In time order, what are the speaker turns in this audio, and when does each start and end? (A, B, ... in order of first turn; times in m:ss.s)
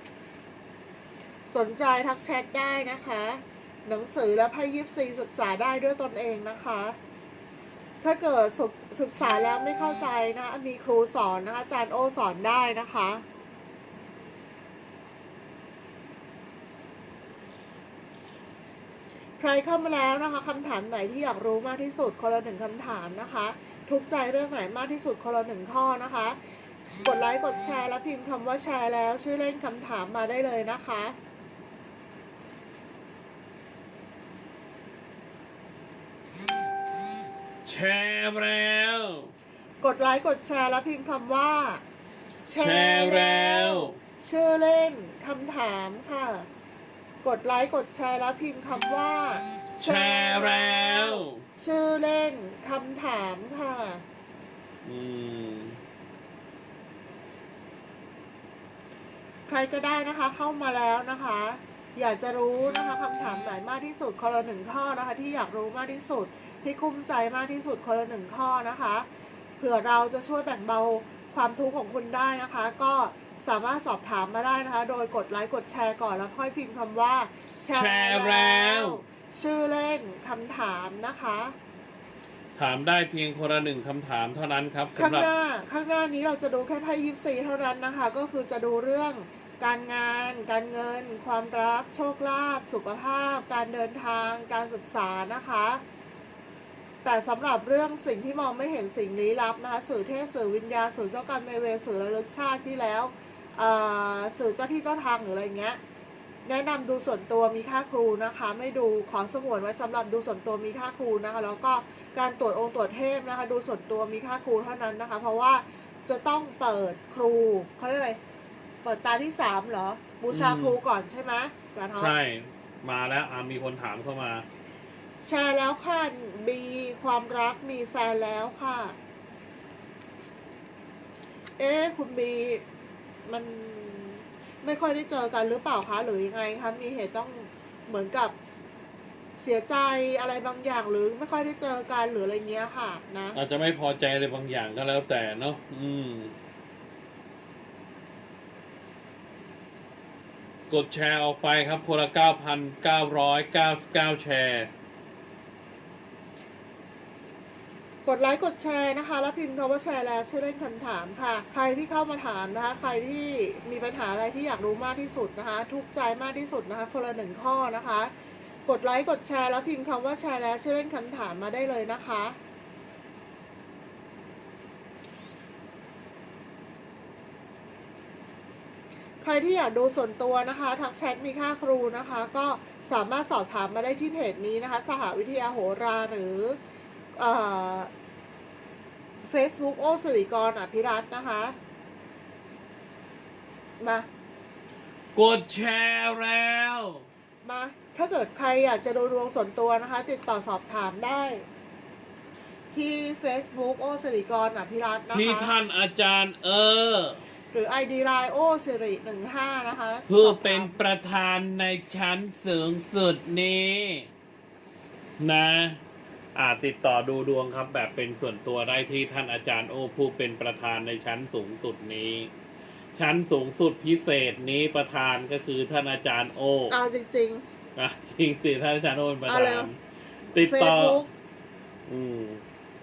0:01.5-0:07.0 A
0:08.0-0:13.2 A
0:19.4-0:31.2 A
0:37.6-0:39.3 B
0:39.8-0:41.8 A
0:42.4-0:46.5 A
0:42.6-0:44.0 B
0:47.2-0:54.0 A
0:49.7-0:51.4 B
0:54.8-0:55.8 B
0:59.5-1:09.1 A
1:09.6-1:21.6 A
1:17.7-1:19.0 B
1:22.6-1:25.3 B
1:25.0-1:35.8 A
1:37.0-1:45.8 A
1:46.4-1:58.2 A
1:58.8-2:02.1 A
2:00.3-2:00.8 B
2:02.0-2:04.4 B
2:05.2-2:09.0 A
2:11.6-2:12.6 A
2:13.2-2:18.3 A
2:19.4-2:23.4 A
2:23.3-2:26.3 B
2:30.7-2:34.7 B
2:38.0-2:48.1 A
2:48.6-2:52.4 A
2:59.2-3:06.6 A
3:07.1-3:07.9 A
3:09.2-3:11.6 A
3:13.8-3:14.1 A
3:15.1-3:17.0 B
3:17.4-3:21.4 A
3:22.7-3:25.5 A
3:25.1-3:27.2 B
3:27.5-3:30.8 A
3:30.1-3:34.1 B
3:35.2-3:35.8 B
3:36.3-3:42.3 B
3:43.0-3:46.7 B
3:46.7-3:47.4 A
3:47.8-3:49.8 B
3:49.3-3:49.7 A
3:50.3-3:51.0 B
3:50.4-3:51.1 A
3:51.9-3:52.4 B